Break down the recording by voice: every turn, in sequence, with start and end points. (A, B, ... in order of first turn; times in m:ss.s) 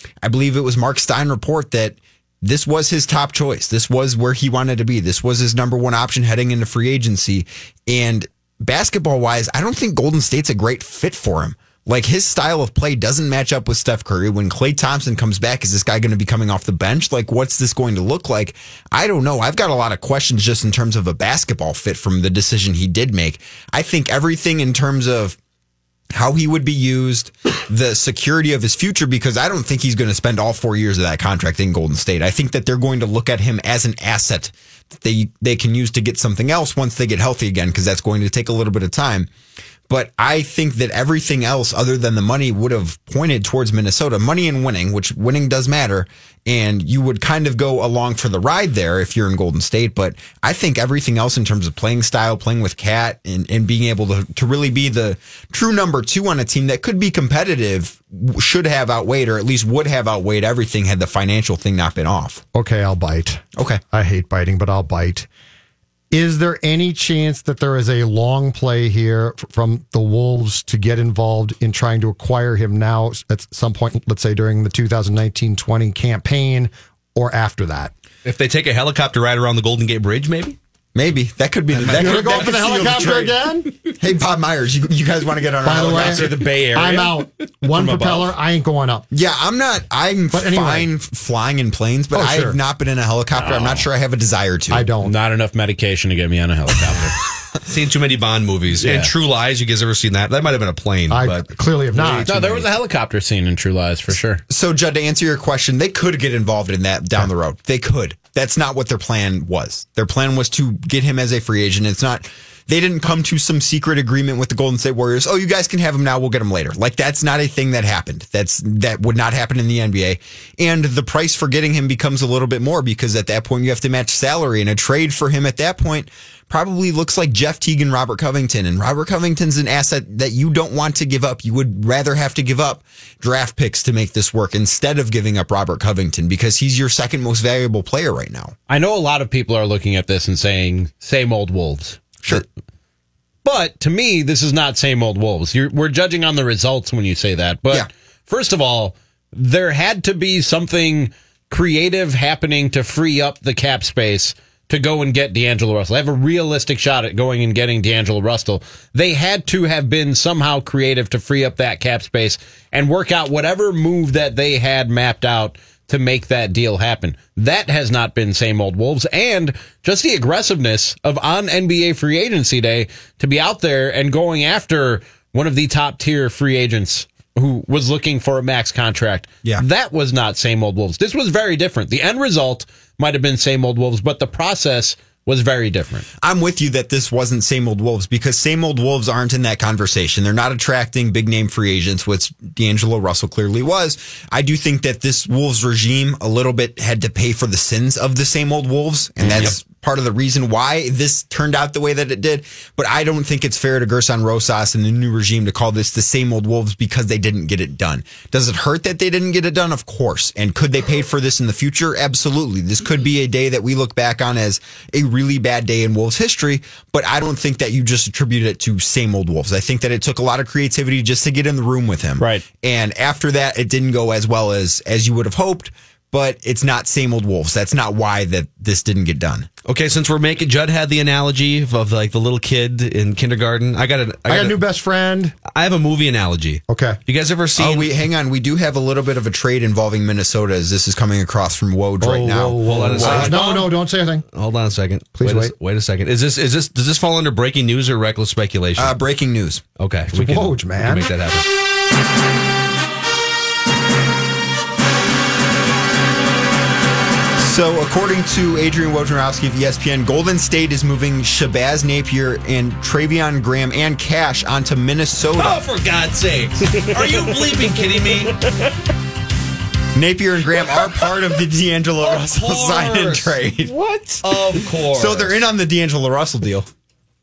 0:00.2-0:25.4 A
0:26.1-0:39.3 A
0:39.9-1:02.4 A
1:02.5-1:05.3 B
1:03.6-1:03.8 A
1:06.1-1:17.9 B
1:18.2-1:20.6 C
1:20.9-1:26.3 A
1:21.8-1:23.2 C
1:21.9-1:23.7 B
1:25.6-1:29.0 B
1:25.8-1:28.3 D
1:29.1-1:34.9 A
1:30.3-1:30.9 B
1:32.1-1:32.6 B
1:33.4-1:33.9 D
1:34.7-1:35.1 B
1:35.0-1:37.2 D
1:37.6-1:42.7 C
1:38.8-1:39.1 D
1:41.1-1:42.5 B
1:42.0-1:44.4 D
1:44.5-2:18.5 A
2:18.7-2:22.4 D
2:23.4-3:06.1 D
3:06.2-3:49.5 A
3:42.2-3:42.5 D
3:49.6-3:54.6 C
3:54.3-3:55.3 B
3:55.4-3:57.9 C
3:56.7-3:57.0 B
3:57.6-4:03.6 A
4:02.0-4:04.2 B
4:02.6-4:03.7 C
4:04.3-4:09.0 C
4:05.1-4:05.5 B
4:08.8-4:09.6 A
4:09.8-4:11.4 C
4:10.1-4:11.1 B
4:17.4-4:25.6 A
4:25.3-4:28.4 C
4:26.7-4:28.3 D
4:29.9-4:33.7 A
4:32.1-4:33.0 C
4:32.5-4:33.3 B
4:33.6-4:34.7 D
4:34.2-4:35.4 C
4:34.9-4:36.7 A